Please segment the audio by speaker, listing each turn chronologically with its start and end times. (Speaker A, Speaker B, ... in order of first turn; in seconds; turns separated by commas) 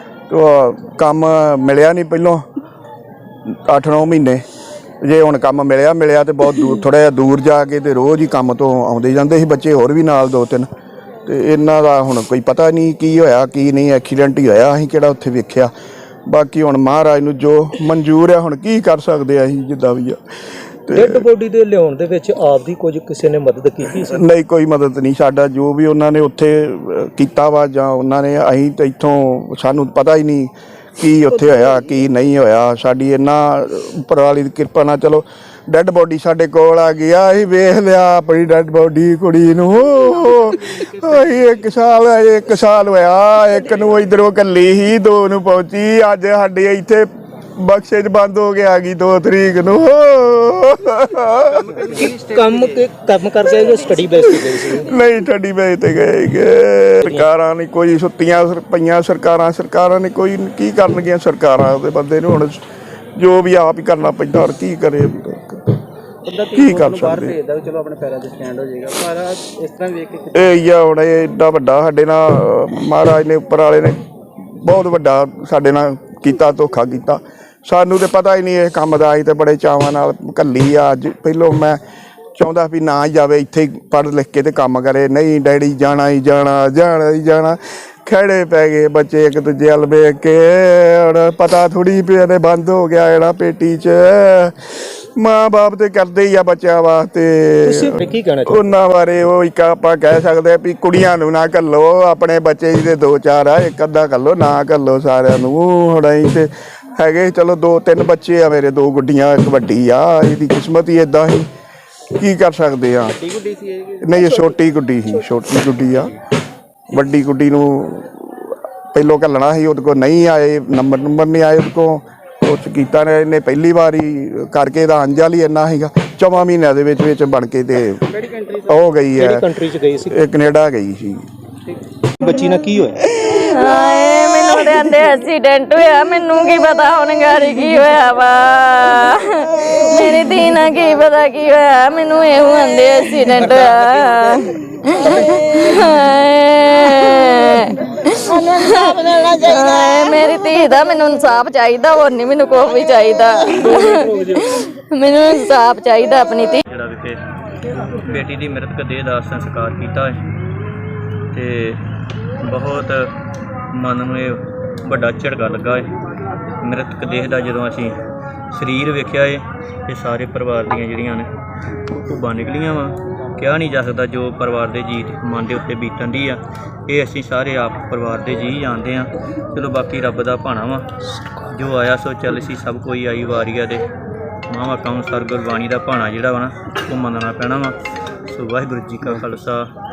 Speaker A: 0.3-2.5, Speaker A: 3.4-4.4, Speaker A: 5.0-10.7, Speaker A: 11.2-15.7, Speaker A: 16.2-20.2, Speaker A: 20.9-21.3, Speaker B: 20.9-24.1, Speaker A: 23.8-51.8, Speaker C: 51.7-52.7, Speaker B: 52.1-54.7, Speaker A: 54.7-62.6, Speaker A: 63.1-65.8, Speaker C: 66.2-70.5, Speaker A: 66.5-67.4, Speaker A: 70.3-81.8, Speaker A: 82.3-111.5, Speaker B: 97.6-98.6, Speaker A: 112.1-113.2, Speaker C: 113.2-114.2, Speaker A: 114.0-116.2, Speaker A: 116.9-128.1, Speaker C: 128.2-128.8, Speaker A: 128.6-129.5, Speaker B: 129.2-130.2, Speaker A: 130.1-131.2, Speaker B: 132.2-134.6, Speaker D: 133.3-154.2, Speaker B: 135.4-156.3, Speaker D: 154.9-156.6, Speaker E: 156.6-157.2, Speaker E: 157.8-160.2, Speaker E: 161.3-161.8, Speaker E: 162.4-163.1, Speaker E: 163.7-165.9, Speaker E: 166.6-168.0, Speaker E: 168.5-171.3, Speaker E: 171.9-180.9, Speaker E: 181.4-183.9, Speaker E: 184.5-187.8, Speaker E: 188.3-189.7